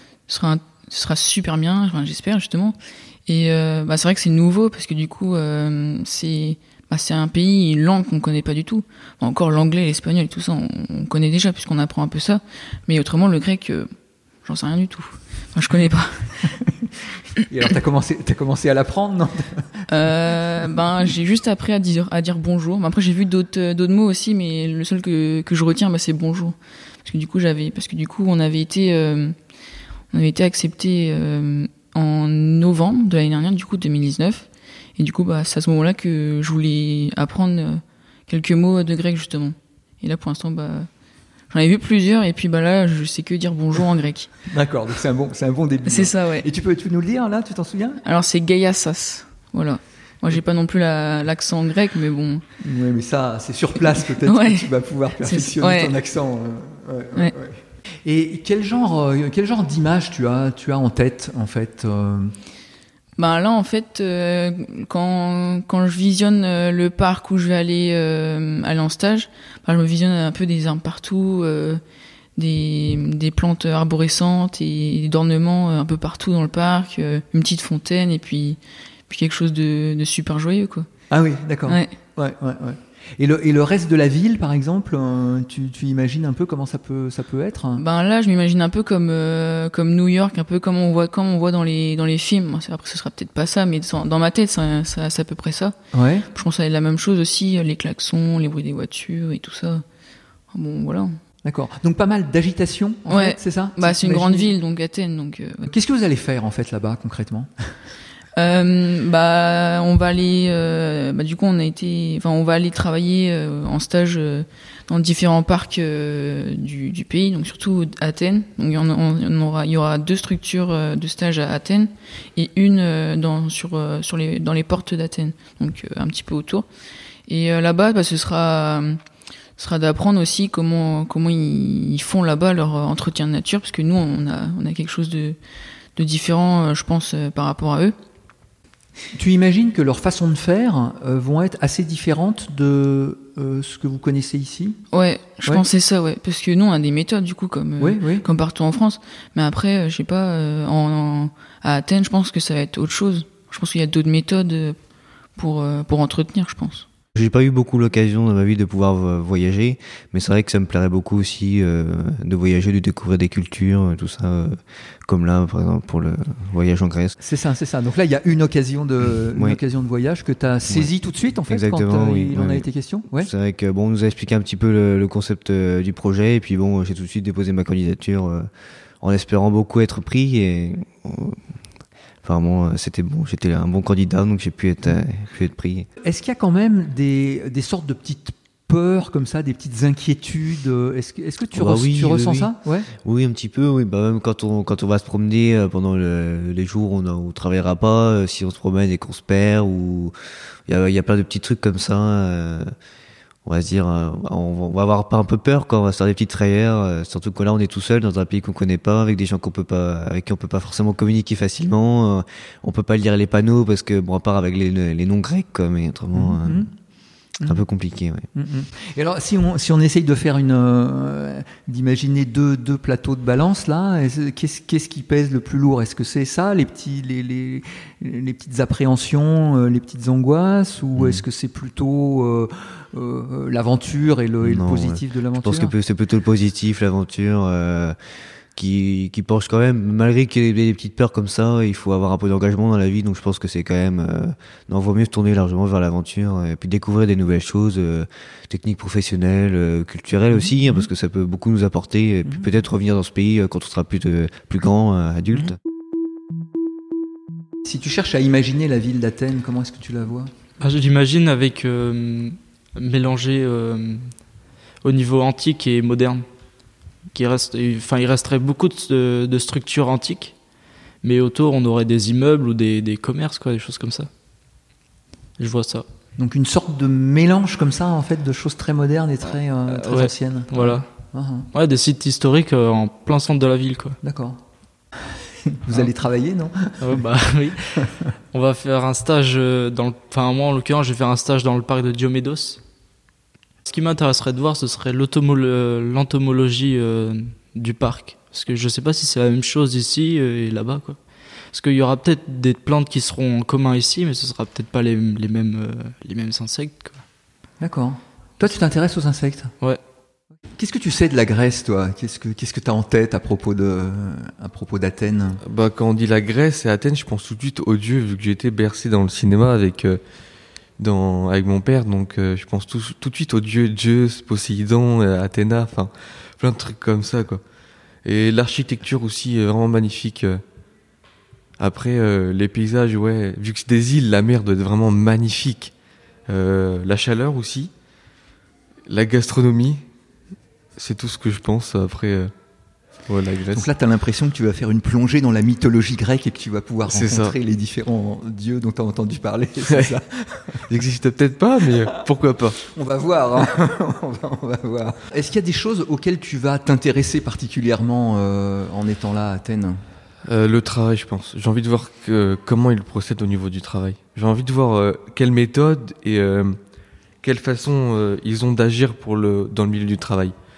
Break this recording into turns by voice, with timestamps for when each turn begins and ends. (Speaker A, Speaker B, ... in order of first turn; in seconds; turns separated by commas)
Speaker A: 0.3-13.9, Speaker A: 14.4-16.5, Speaker B: 17.5-19.6, Speaker A: 19.9-29.4, Speaker A: 30.1-40.9, Speaker A: 41.5-44.3, Speaker B: 44.5-48.0, Speaker A: 45.8-46.5, Speaker A: 48.0-52.4, Speaker B: 52.6-62.3, Speaker A: 54.2-55.9, Speaker A: 63.2-71.8, Speaker A: 72.4-80.9, Speaker B: 81.1-87.8, Speaker A: 81.7-81.9, Speaker A: 87.7-95.8, Speaker B: 95.9-96.2, Speaker A: 96.3-99.8, Speaker A: 100.5-101.1, Speaker B: 101.4-104.5, Speaker A: 103.1-105.7, Speaker B: 105.7-107.8, Speaker A: 108.4-126.7, Speaker A: 127.3-129.0, Speaker A: 129.6-135.4, Speaker A: 135.9-137.9, Speaker B: 139.1-144.8, Speaker A: 144.9-154.8, Speaker B: 147.8-148.2, Speaker A: 155.3-156.8, Speaker C: 157.1-167.2, Speaker B: 167.2-173.3, Speaker C: 169.3-169.6, Speaker C: 170.7-178.5, Speaker C: 179.0-181.4, Speaker C: 182.2-185.9, Speaker B: 186.0-192.9, Speaker C: 191.5-200.1, Speaker C: 200.7-202.7, Speaker C: 203.4-216.7, Speaker B: 216.1-216.7, Speaker B: 217.4-217.7, Speaker C: 217.4-218.3, Speaker B: 218.3-235.7, Speaker C: 230.9-231.2, Speaker C: 234.4-238.0, Speaker C: 238.5-255.6, Speaker B: 250.3-250.8, Speaker B: 257.6-260.3, Speaker D: 260.6-264.1, Speaker D: 264.8-266.2, Speaker D: 267.1-270.4, Speaker D: 271.0-274.1, Speaker D: 275.4-275.9, Speaker B: 276.2-281.5, Speaker D: 279.6-280.9, Speaker D: 281.5-284.0, Speaker B: 284.0-284.4, Speaker B: 285.6-286.9, Speaker D: 286.8-292.6, Speaker D: 293.6-301.0, Speaker D: 301.5-307.0, Speaker B: 307.6-309.5, Speaker B: 310.5-315.4, Speaker E: 315.4-320.0, Speaker E: 320.8-327.4, Speaker E: 328.0-330.4, Speaker E: 331.6-335.7, Speaker E: 336.2-337.7, Speaker E: 338.9-339.8, Speaker E: 340.7-342.3, Speaker E: 342.9-343.7, Speaker B: 343.5-350.8, Speaker E: 346.9-347.4, Speaker E: 349.6-349.9, Speaker E: 350.7-352.6, Speaker B: 351.7-359.8, Speaker E: 360.2-370.4